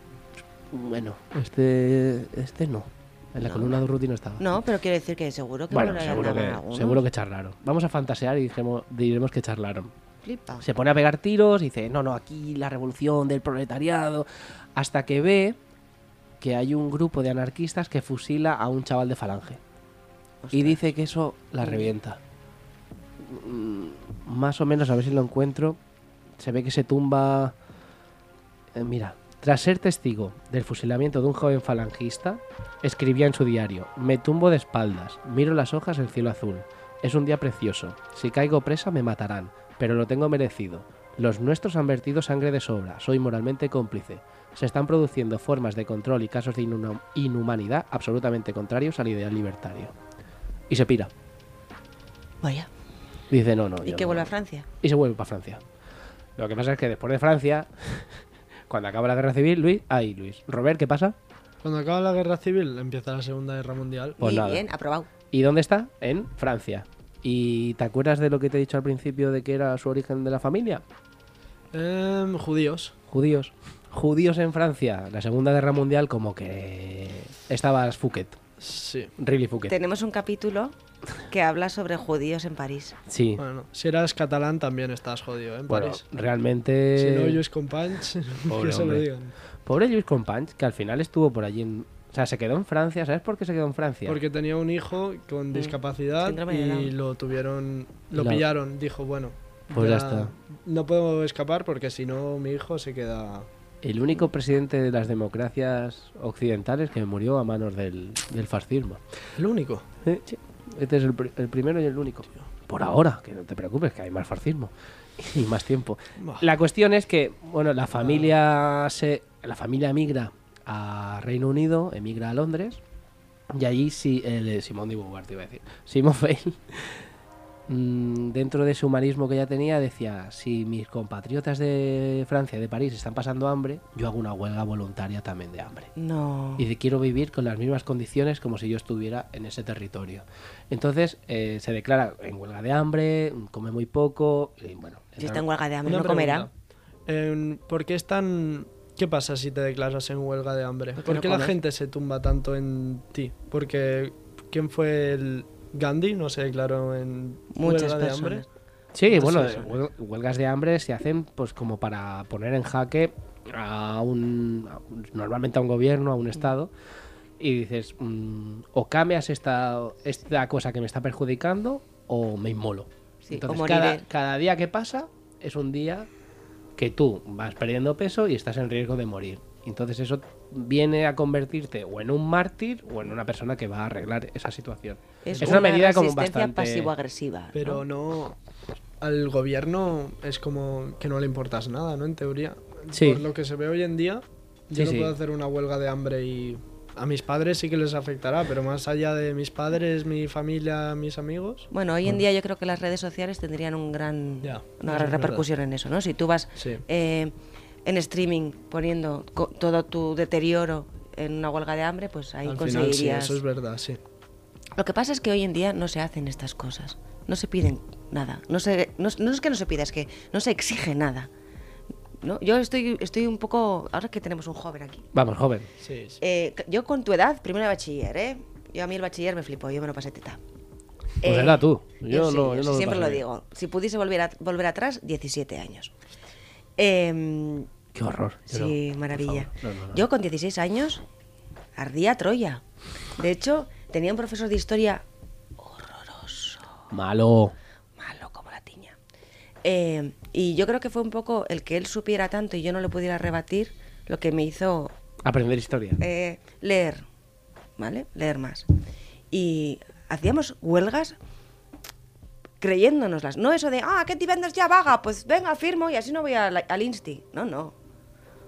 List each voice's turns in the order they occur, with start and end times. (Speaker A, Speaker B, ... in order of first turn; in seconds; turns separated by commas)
Speaker A: 0.7-4.4, Speaker B: 3.4-3.8, Speaker B: 4.4-7.0, Speaker A: 5.7-9.9, Speaker B: 10.2-10.7, Speaker A: 10.6-15.6, Speaker A: 16.4-19.6, Speaker B: 20.4-20.8, Speaker A: 20.5-22.2, Speaker B: 21.6-21.9, Speaker A: 23.2-25.8, Speaker A: 26.4-27.6, Speaker A: 28.7-50.0, Speaker A: 50.7-51.1, Speaker B: 52.4-52.7, Speaker A: 53.3-54.3, Speaker B: 53.8-54.7, Speaker A: 54.8-55.6, Speaker A: 56.4-58.1, Speaker A: 58.7-61.2, Speaker C: 61.6-64.2, Speaker B: 64.2-65.1, Speaker A: 64.2-64.7, Speaker A: 65.3-70.8, Speaker C: 71.7-72.9, Speaker A: 73.1-78.4, Speaker C: 78.6-79.1, Speaker A: 79.2-79.7, Speaker B: 79.7-80.8, Speaker B: 81.3-83.0, Speaker A: 83.1-83.4, Speaker C: 83.4-86.0, Speaker A: 85.7-87.4, Speaker C: 87.0-89.3, Speaker A: 88.5-89.1, Speaker A: 89.6-94.2, Speaker C: 94.1-103.5, Speaker B: 95.5-96.9, Speaker A: 98.2-98.4, Speaker A: 99.7-100.3, Speaker A: 103.8-109.0, Speaker C: 109.4-109.8, Speaker A: 110.0-122.8, Speaker C: 116.2-116.5, Speaker C: 118.0-118.3, Speaker A: 123.5-127.1, Speaker A: 127.7-135.9, Speaker B: 136.0-136.7, Speaker A: 136.6-145.4, Speaker B: 145.2-146.5, Speaker C: 145.8-146.5, Speaker C: 147.1-158.4, Speaker B: 151.0-151.6, Speaker B: 157.5-158.5, Speaker A: 158.9-166.7, Speaker C: 159.1-159.7, Speaker A: 167.4-176.1, Speaker B: 173.2-174.0, Speaker A: 176.8-186.9, Speaker B: 185.2-187.8, Speaker C: 185.3-185.7, Speaker C: 187.5-188.4, Speaker C: 189.0-201.7, Speaker A: 192.9-193.2, Speaker A: 194.7-195.1, Speaker B: 201.7-207.3, Speaker C: 204.4-205.5, Speaker C: 206.6-206.8, Speaker B: 207.8-213.4, Speaker C: 212.5-214.0, Speaker B: 214.8-221.3, Speaker B: 222.2-225.1, Speaker A: 225.1-225.7, Speaker C: 225.8-226.2, Speaker B: 226.2-230.4, Speaker B: 231.2-235.9, Speaker A: 231.2-233.2, Speaker B: 236.8-237.7, Speaker A: 237.9-240.0, Speaker B: 238.5-241.0, Speaker B: 241.8-242.6, Speaker B: 243.2-245.0, Speaker B: 245.6-246.7, Speaker A: 246.9-247.6, Speaker B: 248.0-248.9, Speaker B: 249.6-254.9, Speaker A: 255.2-256.0, Speaker B: 256.0-257.1, Speaker B: 257.8-258.7, Speaker B: 259.3-261.1, Speaker B: 262.6-267.7